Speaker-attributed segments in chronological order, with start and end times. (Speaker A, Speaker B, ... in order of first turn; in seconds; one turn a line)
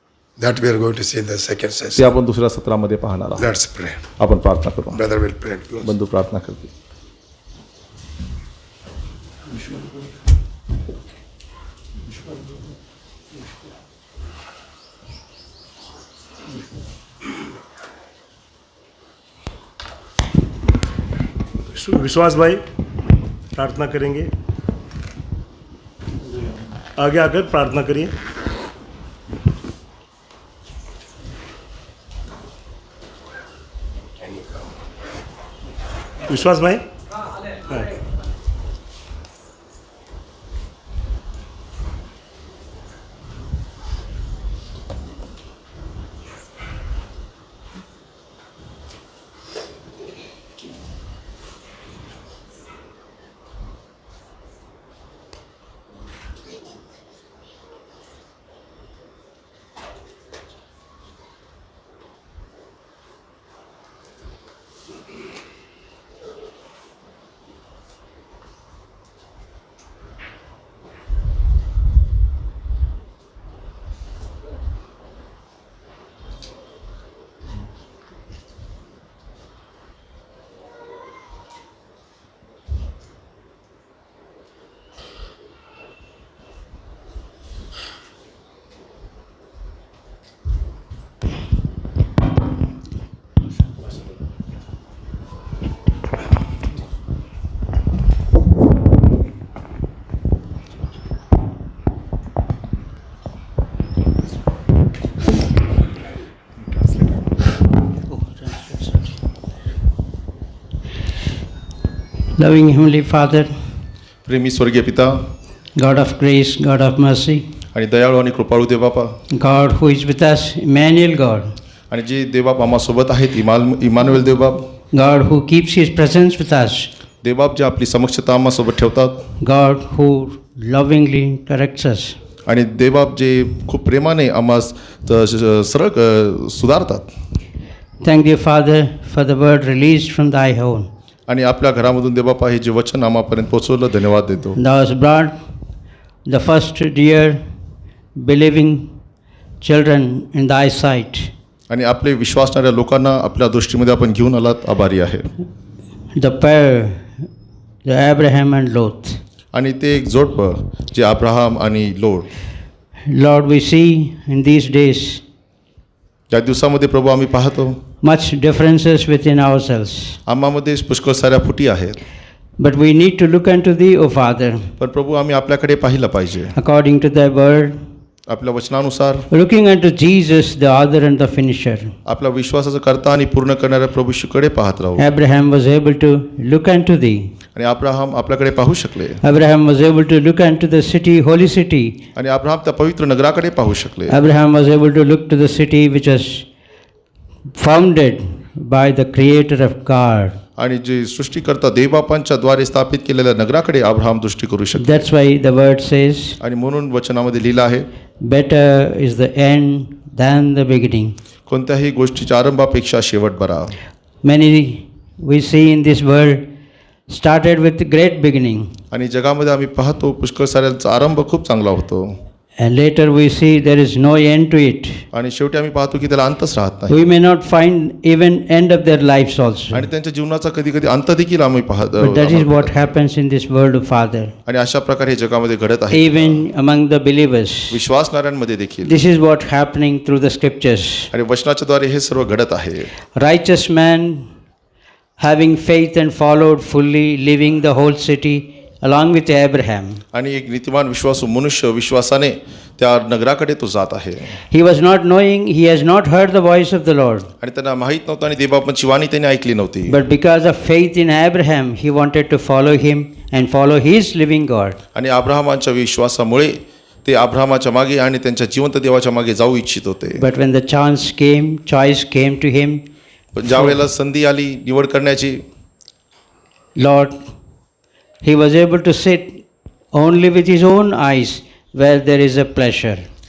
Speaker A: 0.4-2.1
Speaker B: 2.0-3.5
Speaker A: 3.4-4.1
Speaker B: 4.2-5.0
Speaker A: 4.9-5.9
Speaker B: 5.8-6.7
Speaker C: 21.7-22.6
Speaker C: 23.5-24.3
Speaker C: 27.0-28.2
Speaker C: 36.2-36.9
Speaker C: 37.5-37.9
Speaker D: 108.1-109.0
Speaker D: 112.4-113.5
Speaker B: 114.2-115.2
Speaker D: 115.8-117.5
Speaker B: 117.7-119.1
Speaker D: 119.3-121.5
Speaker B: 121.9-124.7
Speaker D: 124.9-126.9
Speaker B: 127.2-129.2
Speaker D: 129.4-132.2
Speaker B: 132.5-137.1
Speaker D: 138.0-140.9
Speaker B: 141.3-144.6
Speaker D: 144.6-145.4
Speaker D: 146.3-147.4
Speaker D: 148.2-148.9
Speaker D: 149.6-151.3
Speaker B: 151.7-155.3
Speaker D: 156.2-157.3
Speaker D: 157.8-159.2
Speaker B: 159.5-162.3
Speaker D: 163.1-165.2
Speaker B: 166.3-167.8
Speaker D: 168.0-170.2
Speaker B: 170.3-172.0
Speaker D: 172.6-174.7
Speaker B: 174.8-176.5
Speaker D: 176.6-177.8
Speaker B: 178.3-179.3
Speaker D: 179.3-181.9
Speaker B: 182.1-185.1
Speaker D: 185.0-187.3
Speaker B: 187.6-189.2
Speaker D: 189.2-192.0
Speaker B: 192.2-194.2
Speaker D: 194.1-196.5
Speaker D: 197.6-200.4
Speaker B: 200.6-205.1
Speaker D: 204.8-206.4
Speaker B: 206.4-207.9
Speaker D: 208.2-211.2
Speaker B: 211.5-213.8
Speaker D: 214.2-216.4
Speaker D: 217.1-218.7
Speaker B: 218.9-222.1
Speaker D: 222.6-225.0
Speaker B: 225.1-227.0
Speaker D: 226.9-229.9
Speaker B: 229.7-232.9
Speaker D: 232.0-234.3
Speaker B: 234.5-236.5
Speaker D: 235.9-237.8
Speaker B: 237.7-239.0
Speaker D: 238.8-241.1
Speaker B: 241.1-242.9
Speaker D: 243.2-244.3
Speaker D: 245.2-250.0
Speaker B: 250.1-254.4
Speaker D: 254.5-257.3
Speaker B: 257.4-260.0
Speaker D: 259.9-264.8
Speaker B: 264.9-270.2
Speaker D: 270.2-272.8
Speaker B: 273.4-275.4
Speaker D: 273.4-273.8
Speaker D: 276.8-277.2
Speaker D: 278.2-279.4
Speaker D: 279.9-283.1